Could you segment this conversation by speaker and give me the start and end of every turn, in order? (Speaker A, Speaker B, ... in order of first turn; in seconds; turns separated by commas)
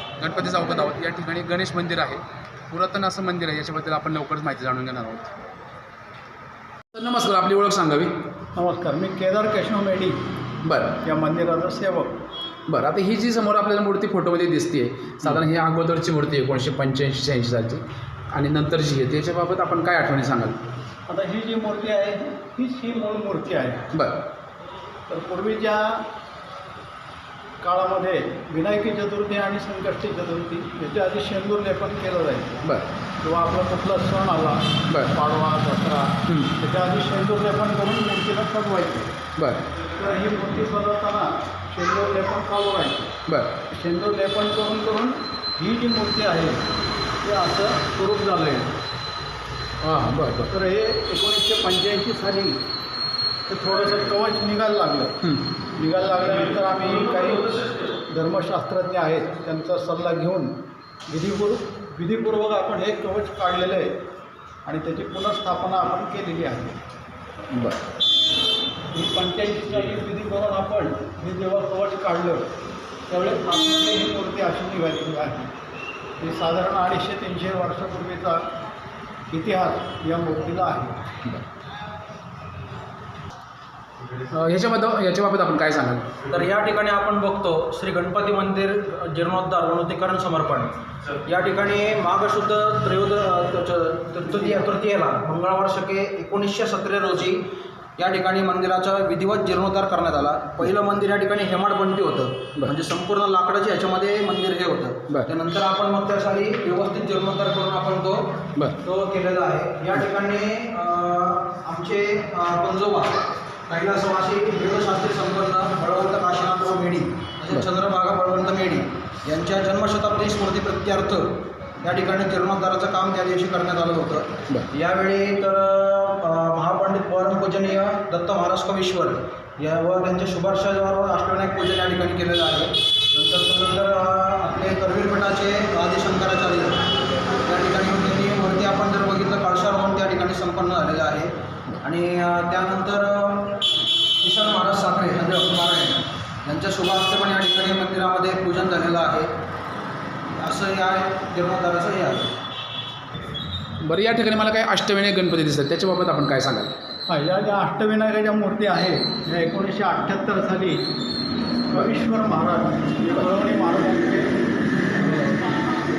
Speaker A: 0.2-5.3, Speaker A: 6.9-8.1, Speaker B: 8.6-10.2, Speaker A: 10.6-11.0, Speaker B: 11.0-12.2, Speaker A: 12.7-20.6, Speaker B: 21.1-23.9, Speaker A: 23.9-24.2, Speaker B: 25.1-26.1, Speaker B: 27.6-32.6, Speaker B: 33.2-39.2, Speaker A: 34.9-35.1, Speaker A: 36.3-36.5, Speaker A: 39.4-39.7, Speaker B: 39.9-43.1, Speaker A: 43.3-43.6, Speaker B: 43.7-46.6, Speaker B: 47.2-48.8, Speaker A: 49.8-50.5, Speaker B: 50.5-52.6, Speaker B: 53.5-55.2, Speaker A: 55.2-55.5, Speaker B: 55.8-60.5, Speaker B: 61.1-63.9, Speaker B: 64.7-66.8, Speaker A: 67.5-67.8, Speaker B: 68.9-72.4, Speaker B: 73.1-75.5, Speaker B: 76.2-78.5, Speaker B: 79.3-81.0, Speaker A: 84.2-86.2, Speaker C: 86.2-97.4, Speaker C: 98.0-149.3, Speaker C: 150.4-152.3, Speaker A: 153.8-156.7, Speaker B: 157.1-160.9, Speaker B: 161.7-165.6